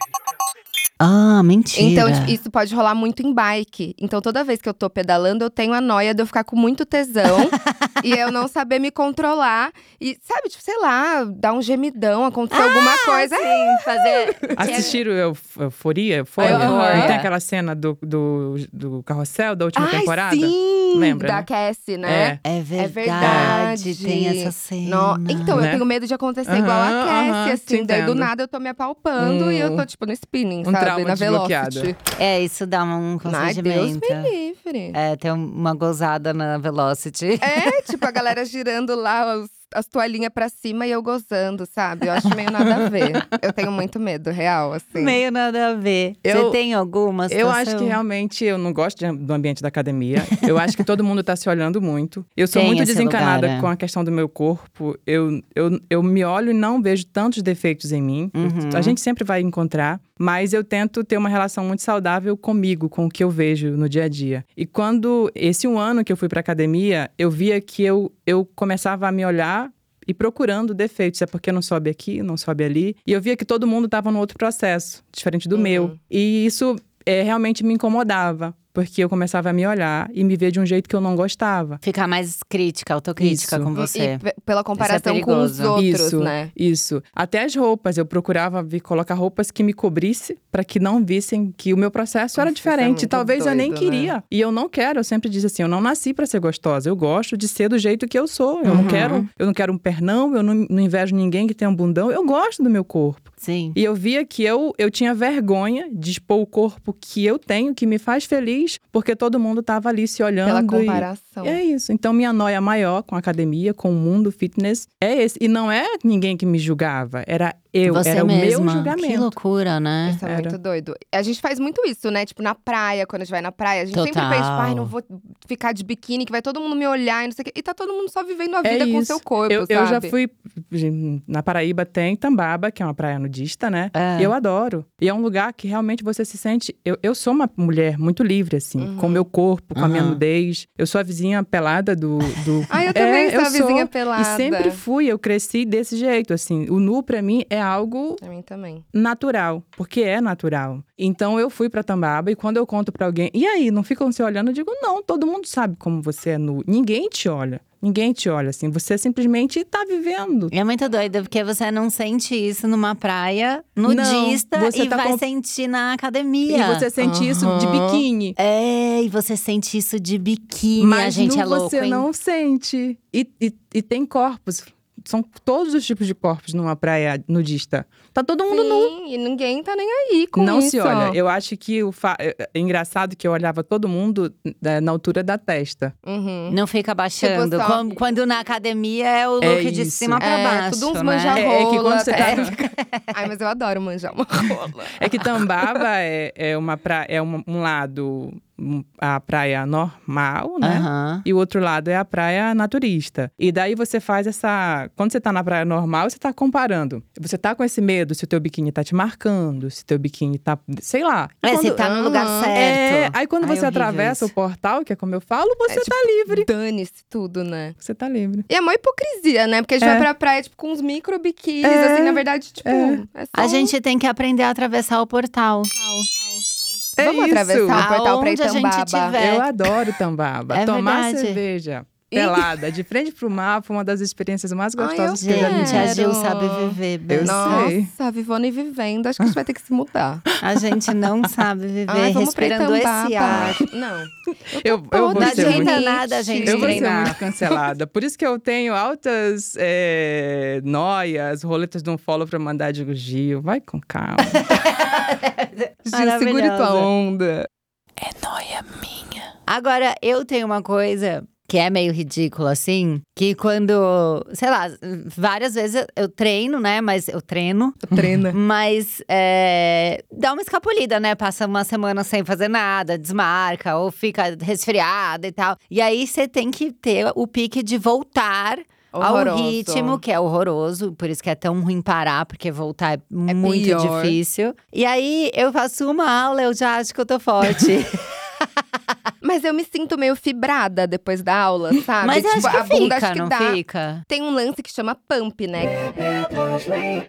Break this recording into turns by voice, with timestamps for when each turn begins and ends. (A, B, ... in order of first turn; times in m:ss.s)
0:01.0-0:02.4 A
0:01.7-0:14.9 B
0:12.5-0:15.0 A
0:14.6-0:21.5 C
0:16.4-0:17.2 B
0:16.4-0:17.3 A
0:19.8-0:32.0 B
0:22.0-0:22.4 C
0:22.4-0:25.7 A
0:23.2-0:23.6 C
0:25.5-0:25.8 C
0:26.4-0:28.3 C
0:29.2-0:29.8 C
0:30.6-0:31.9 C
0:32.1-0:34.3 A
0:33.2-0:35.0 B
0:34.9-0:37.7 A
0:37.4-0:45.2 B
0:44.9-0:48.0 A
0:46.2-0:46.6 C
0:47.3-1:21.8 C
0:52.5-0:53.7 A
0:58.3-0:59.0 A
1:15.5-1:16.0 B
1:21.8-1:24.2 A
1:23.2-1:23.7 C
1:23.7-1:26.5 B
1:24.8-1:25.8 A
1:25.7-1:59.3 C
1:32.4-1:34.1 B
1:38.6-1:39.3 A
1:38.7-1:39.0 B
1:43.4-1:43.8 A
1:50.4-1:51.6 B
1:57.8-2:00.2 A
2:00.0-2:10.1 B
2:00.2-2:00.6 C
2:03.9-2:04.9 A
2:08.6-2:28.2 C
2:13.9-2:14.3 A
2:18.8-2:19.2 B
2:19.7-2:20.2 A
2:22.7-2:24.8 B
2:28.2-2:28.8 B
2:28.9-2:40.5 C
2:40.5-2:46.9 A
2:43.8-2:45.2 C
2:46.5-2:48.4 C
2:47.0-2:48.0 B
2:48.4-2:52.1 A
2:50.8-2:58.9 C
2:58.5-3:01.2 B
3:00.3-3:05.9 C
3:06.0-3:06.6 B
3:06.5-3:11.5 A
3:07.2-3:07.9 B
3:09.4-3:10.2 C
3:10.2-3:12.5 B
3:11.3-3:12.6 C
3:12.1-3:13.2 A
3:13.1-3:15.1 B
3:15.0-3:31.8 C
3:20.6-3:21.2 A
3:31.4-3:34.3 A
3:31.8-3:32.5 B
3:32.5-3:36.5 C
3:35.7-3:37.8 B
3:37.8-3:38.4 C
3:38.5-3:43.7 B
3:39.8-3:40.1 C
3:41.6-3:43.0 C
3:43.3-3:45.9 A
3:47.0-3:49.2 B
3:47.0-3:47.8 C
3:47.7-3:49.5 A
3:49.2-3:56.0 C
3:50.5-3:51.4 A
3:52.1-3:52.5 B
3:54.8-4:00.2 B
3:55.2-3:57.7 A
3:57.1-3:57.9 C
4:00.4-4:03.6 A
4:00.5-4:01.2 C
4:01.9-4:07.5 B
4:04.6-4:05.8 C
4:05.1-4:07.2 A
4:06.4-4:14.4 C
4:14.3-4:16.9 A
4:15.9-4:17.5 B
4:18.0-4:19.2 C
4:19.5-4:48.9 A
4:27.9-4:28.4 B
4:38.9-4:40.0 B
4:43.3-4:44.2 B
4:49.2-4:55.9 B
4:52.0-4:54.0 A